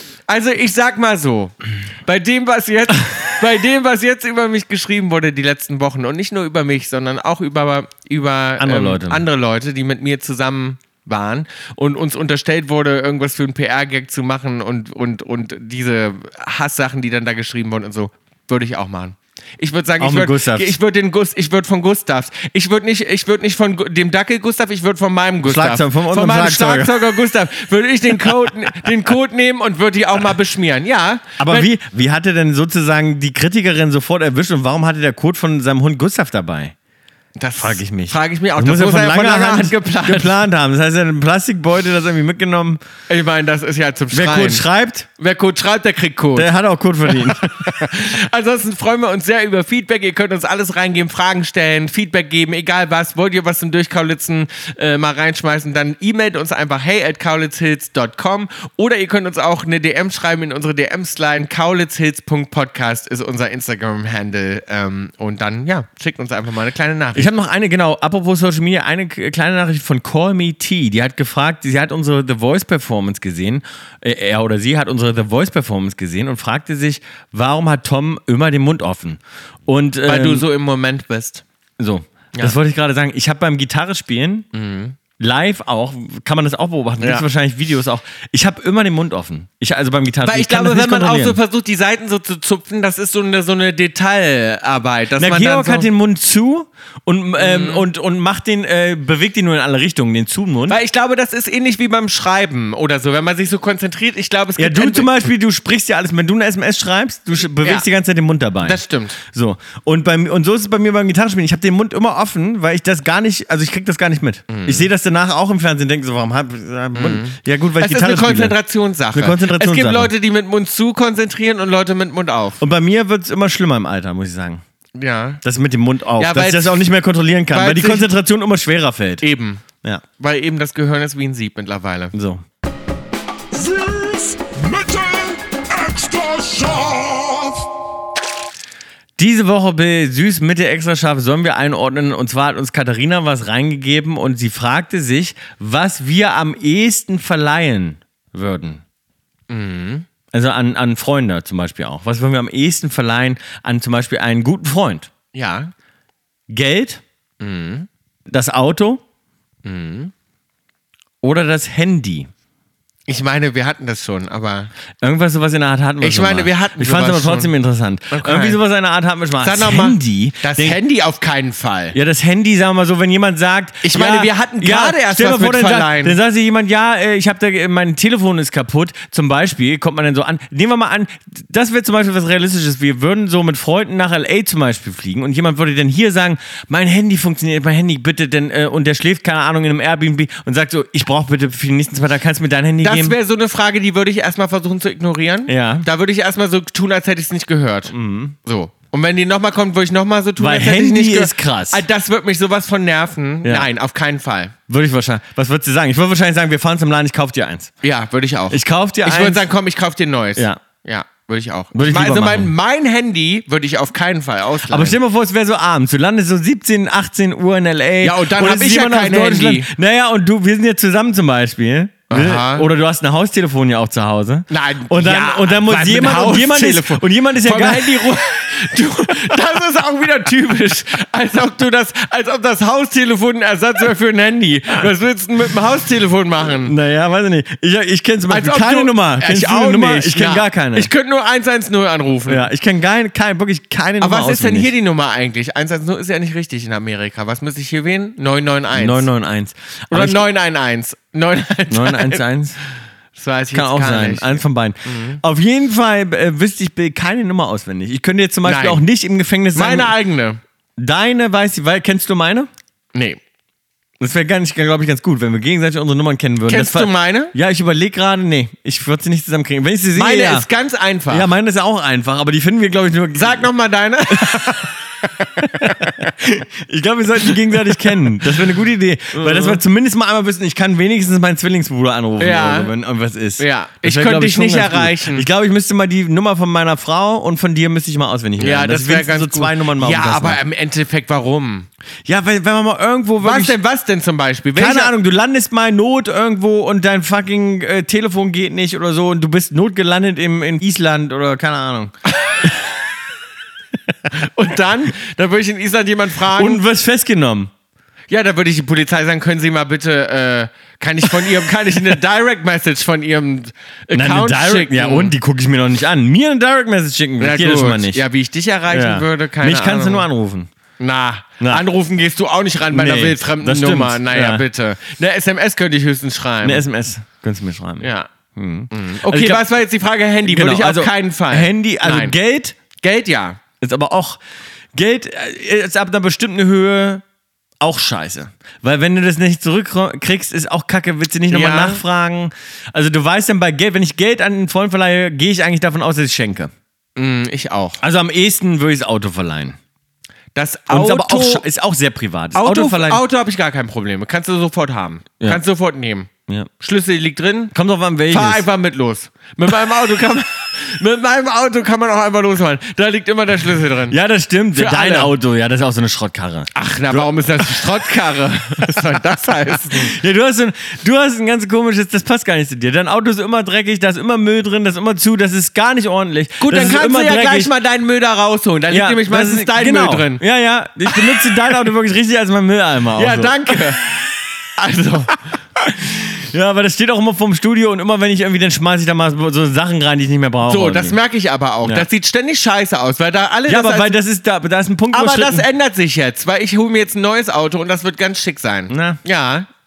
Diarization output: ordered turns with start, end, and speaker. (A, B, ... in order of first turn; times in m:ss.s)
0:00.3-0:31.7 A
0:08.6-0:09.2 B
0:20.0-0:20.8 B
0:25.4-0:27.1 B
0:28.1-0:28.5 B
0:31.4-0:36.7 B
0:37.4-0:40.4 A
0:37.6-0:42.8 B
0:43.1-0:44.6 A
0:44.1-0:45.1 B
0:45.2-0:46.5 A
0:46.3-0:48.0 B
0:47.1-1:07.3 A
1:07.1-1:20.4 B
1:20.0-1:21.4 A
1:21.8-1:24.5 B
1:24.5-1:25.0 A
1:25.2-1:31.4 B
1:27.0-1:27.3 A
1:30.2-1:35.9 A
1:35.2-1:40.8 B
1:37.4-1:37.8 A
1:40.7-1:45.1 A
1:44.6-1:58.6 B
1:47.6-1:47.9 A
1:48.6-1:49.2 A
1:54.5-1:54.9 A
1:56.9-2:02.6 A
1:59.1-2:00.1 B
2:02.6-2:04.6 B
2:04.9-2:05.4 A
2:05.4-2:09.2 B
2:06.2-2:06.9 A
2:07.5-2:08.1 A
2:09.2-2:09.6 A
2:10.2-2:12.1 A
2:12.1-2:12.4 B
2:13.5-2:17.7 C
2:19.2-2:28.8 B
2:29.5-2:30.0 A
2:30.3-2:35.1 B
2:35.3-2:35.7 A
2:36.5-2:37.0 B
2:37.4-2:37.9 A
2:38.3-2:39.0 B
2:39.6-2:40.1 A
2:41.2-2:42.3 B
2:43.1-2:44.7 A
2:45.0-2:50.8 B
2:46.0-2:47.5 A
2:48.1-2:48.6 A
2:49.4-2:52.0 A
2:51.9-3:13.2 B
2:53.8-2:56.2 A
3:12.8-3:24.5 A
3:15.5-3:15.9 B
3:17.9-3:18.4 B
3:20.4-3:21.8 B
3:23.4-3:23.7 B
3:24.7-3:27.7 B
3:27.8-3:35.0 A
3:28.5-3:29.5 B
3:30.4-3:30.6 B
3:31.7-3:32.5 B
3:34.7-3:48.2 B
3:38.0-3:39.7 A
3:42.1-3:42.7 A
3:44.5-3:56.7 A
3:56.6-4:00.9 B
3:58.3-4:02.5 A
4:02.3-4:04.7 B
4:04.0-4:09.1 A
4:08.7-4:10.2 B
4:09.9-4:12.2 A
4:11.7-4:12.6 B
4:13.1-4:15.2 A
4:13.5-4:19.9 B
4:18.4-4:18.8 A
4:19.5-4:20.4 A
4:20.8-4:22.5 B
4:22.9-4:23.2 A
4:24.0-4:30.5 B
4:26.5-4:27.3 A
4:29.9-4:31.3 A
4:31.1-4:33.5 B
4:33.1-4:35.9 A
4:34.2-4:34.7 B
4:35.4-4:50.4 B
4:39.1-4:39.6 A
4:42.2-4:42.7 A
4:43.4-4:45.3 A
4:48.4-4:51.7 A
4:52.0-4:53.6 B
4:53.2-4:54.9 A
4:54.6-5:02.5 B
5:04.1-5:06.6 A
5:06.3-5:07.5 B
5:08.1-5:15.1 A
5:13.9-5:18.0 B
5:17.2-5:20.1 A
5:18.7-5:20.5 B
5:20.8-5:26.6 A
5:21.4-5:21.6 B
5:22.7-5:24.4 B
5:26.4-5:29.4 B
5:27.8-5:28.1 A
5:28.7-5:32.2 A
5:30.2-5:32.6 B
5:32.8-5:33.4 A
5:33.6-5:34.2 B
5:34.7-5:37.0 B
5:37.6-5:46.5 B
5:41.3-5:41.8 A
5:47.0-5:47.8 A
5:47.8-5:49.6 B
5:50.3-5:51.4 A
5:50.7-5:53.0 B
5:52.3-5:56.1 A
5:56.6-5:57.5 A
5:57.5-5:58.4 B
5:58.1-6:04.0 A
6:03.9-6:07.8 B
6:04.5-6:05.1 A
6:06.5-6:09.9 A
6:08.6-6:17.5 B
6:16.4-6:20.2 A
6:18.7-6:23.8 B
6:23.0-6:23.8 A
6:24.6-6:25.2 A
6:25.6-6:31.0 B
6:30.4-6:34.0 A
6:33.5-6:35.4 B
6:34.9-6:39.5 A
6:38.7-6:39.0 B